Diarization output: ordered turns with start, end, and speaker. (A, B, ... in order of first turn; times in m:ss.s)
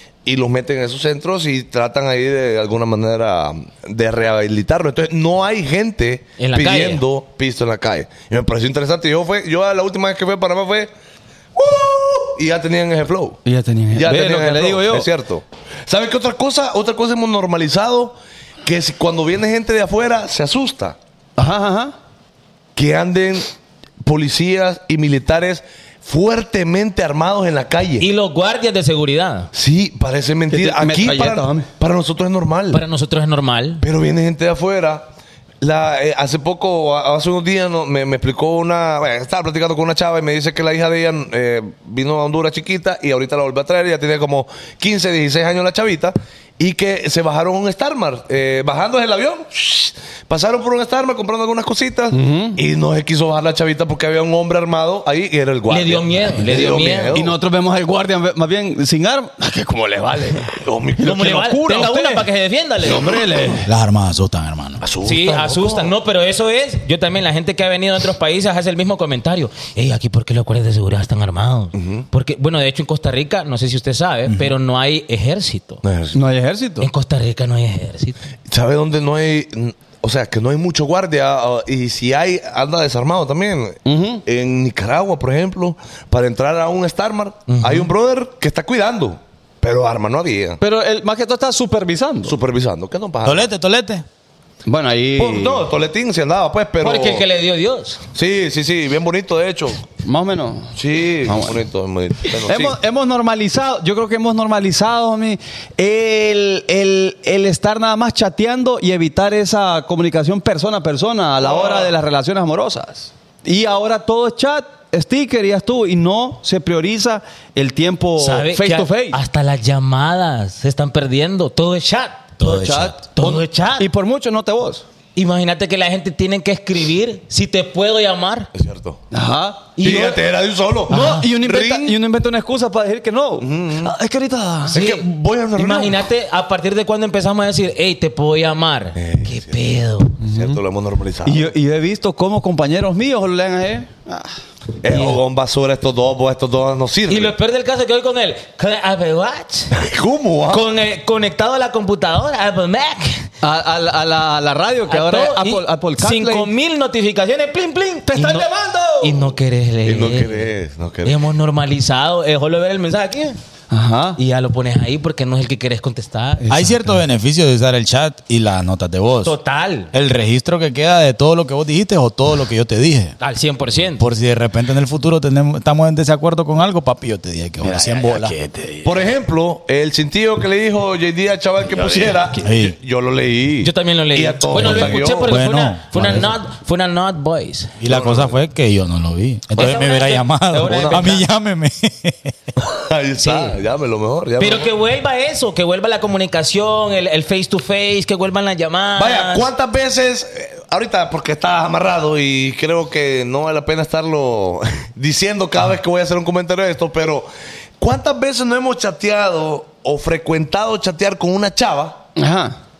0:00.2-0:10.9 A
0:06.4-0:07.0 B
0:11.6-0:13.4 A
0:13.4-0:15.1 C
0:13.9-0:21.0 A
0:21.4-0:22.0 C
0:22.8-0:23.5 A
0:24.0-0:28.1 A
0:28.0-0:29.5 B
0:29.5-0:32.8 A
0:30.5-0:31.7 C
0:32.7-0:33.8 B
0:33.8-0:35.1 A
0:35.6-0:57.4 A
0:52.1-0:52.6 C
0:55.7-0:57.2 B
0:57.1-1:02.3 C
1:00.5-1:01.2 A
1:01.0-1:03.1 B
1:02.8-1:03.7 C
1:02.9-1:03.6 A
1:03.7-1:04.8 D
1:04.8-1:05.9 A
1:05.0-1:15.8 B
1:11.8-1:12.0 A
1:15.8-1:16.2 A
1:16.1-1:16.9 C
1:16.8-1:18.2 B
1:18.5-1:30.6 A
1:23.8-1:24.2 C
1:27.5-1:27.9 B
1:30.6-1:32.4 C
1:32.2-1:33.5 A
1:33.2-1:34.0 D
1:34.7-1:35.6 C
1:35.2-1:37.3 A
1:36.8-1:38.0 B
1:38.1-1:39.8 A
1:40.0-1:41.6 C
1:40.8-1:42.8 A
1:42.4-1:59.2 C
1:51.4-1:51.9 A
1:58.2-2:03.9 B
2:02.4-2:03.1 C
2:03.8-2:04.8 C
2:05.2-2:08.5 B
2:08.6-2:09.0 A
2:09.1-2:09.8 C
2:09.8-2:10.2 B
2:09.8-2:12.0 A
2:10.9-2:14.8 C
2:10.9-2:11.2 B
2:13.4-2:13.9 A
2:14.7-2:16.0 A
2:14.7-2:20.2 B
2:19.0-2:19.6 A
2:20.2-2:20.6 C
2:20.2-2:21.5 A
2:21.2-2:24.3 C
2:24.8-2:27.3 A
2:24.9-2:25.2 B
2:27.1-2:29.8 B
2:29.7-2:30.6 A
2:30.5-2:33.3 B
2:33.4-2:36.5 C
2:34.9-2:38.5 B
2:38.1-2:39.3 C
2:39.0-2:40.5 B
2:39.8-2:41.2 A
2:41.0-2:43.4 B
2:43.7-2:44.2 C
2:44.2-2:46.5 B
2:46.5-2:47.0 C
2:46.5-2:49.4 D
2:49.2-2:49.9 B
2:49.9-2:53.2 D
2:53.2-2:54.0 B
2:54.0-2:58.9 D
2:58.8-3:05.4 A
3:02.4-3:02.8 D
3:03.6-3:07.8 B
3:04.5-3:06.3 D
3:07.8-3:12.5 D
3:07.9-3:08.4 A
3:09.6-3:11.2 B
3:10.6-3:11.1 A
3:12.6-3:14.7 A
3:13.2-3:13.6 B
3:14.4-3:19.5 B
3:19.0-3:27.3 A
3:27.8-3:32.0 A
3:32.2-3:32.6 C